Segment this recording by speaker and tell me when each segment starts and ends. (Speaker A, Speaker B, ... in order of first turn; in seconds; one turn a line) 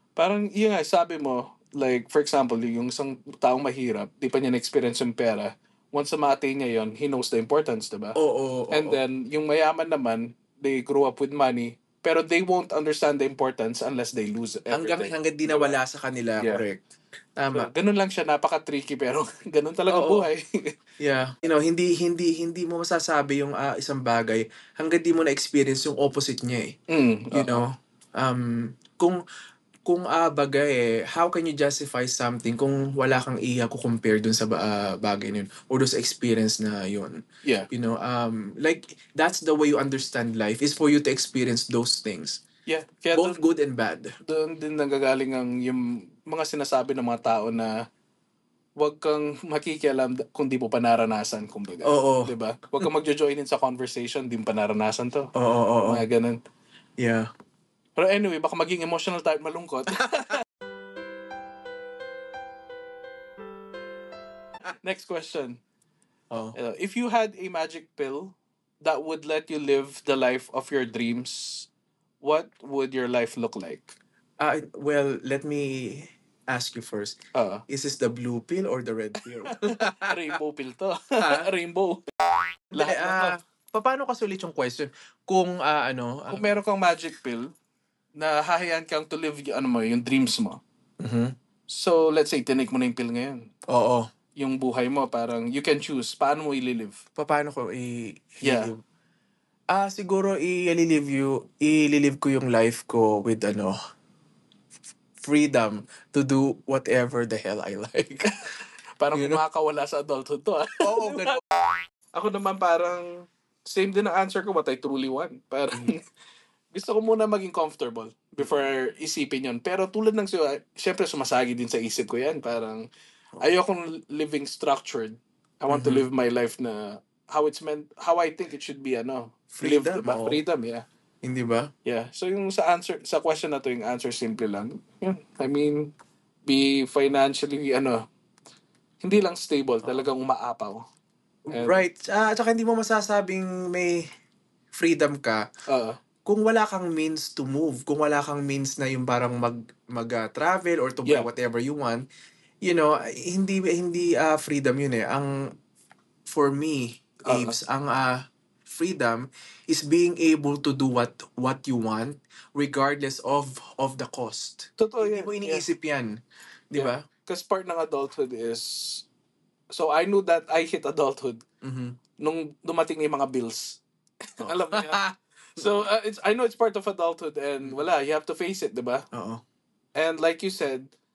Speaker A: 0.1-8.2
Speaker B: 8.2-9.0
Speaker A: 8.7-15.8
Speaker B: 14.7-16.8
Speaker B: 17.4-17.7
Speaker A: 17.5-20.7
Speaker B: 19.9-20.3
Speaker B: 21.0-26.8
Speaker A: 26.9-27.6
Speaker B: 27.3-29.2
Speaker B: 29.9-42.4
Speaker A: 37.4-37.7
Speaker A: 42.6-43.4
Speaker B: 43.1-44.1
Speaker A: 44.2-47.8
Speaker A: 48.8-55.3
Speaker B: 51.8-52.3
Speaker B: 55.3-56.0
Speaker A: 55.8-56.4
Speaker B: 57.0-57.3
Speaker A: 58.0-60.4
Speaker A: 64.8-65.6
Speaker B: 66.3-66.5
Speaker A: 66.5-71.7
Speaker A: 72.2-74.0
Speaker B: 74.4-77.2
Speaker A: 77.3-77.6
Speaker B: 77.7-80.3
Speaker A: 79.5-82.1
Speaker B: 81.2-81.5
Speaker A: 82.7-83.4
Speaker B: 82.7-86.5
Speaker A: 86.3-87.5
Speaker A: 88.2-90.6
Speaker B: 91.0-91.3
Speaker A: 91.7-93.5
Speaker B: 93.7-94.1
Speaker A: 94.4-97.0
Speaker B: 97.2-98.8
Speaker A: 98.4-98.7
Speaker B: 99.7-103.8
Speaker B: 105.2-108.3
Speaker A: 109.0-111.4
Speaker B: 109.1-109.4
Speaker B: 110.8-111.4
Speaker A: 112.1-116.0
Speaker A: 116.7-122.9
Speaker A: 123.4-130.8
Speaker B: 125.7-126.0
Speaker B: 129.5-130.4
Speaker B: 131.2-131.7
Speaker A: 131.8-135.9
Speaker A: 136.5-138.0
Speaker A: 139.0-140.8
Speaker B: 141.5-144.1
Speaker A: 141.5-141.8
Speaker B: 144.7-145.4
Speaker A: 145.7-146.0
Speaker B: 146.2-152.0
Speaker B: 152.6-155.5
Speaker B: 156.3-166.2
Speaker A: 157.2-157.6
Speaker A: 164.8-165.7
Speaker B: 166.7-167.0
Speaker A: 166.7-169.1
Speaker A: 169.7-171.4
Speaker B: 171.6-172.0
Speaker A: 172.2-175.0
Speaker B: 174.4-175.1
Speaker A: 175.6-179.1
Speaker B: 179.1-179.4
Speaker A: 179.9-180.9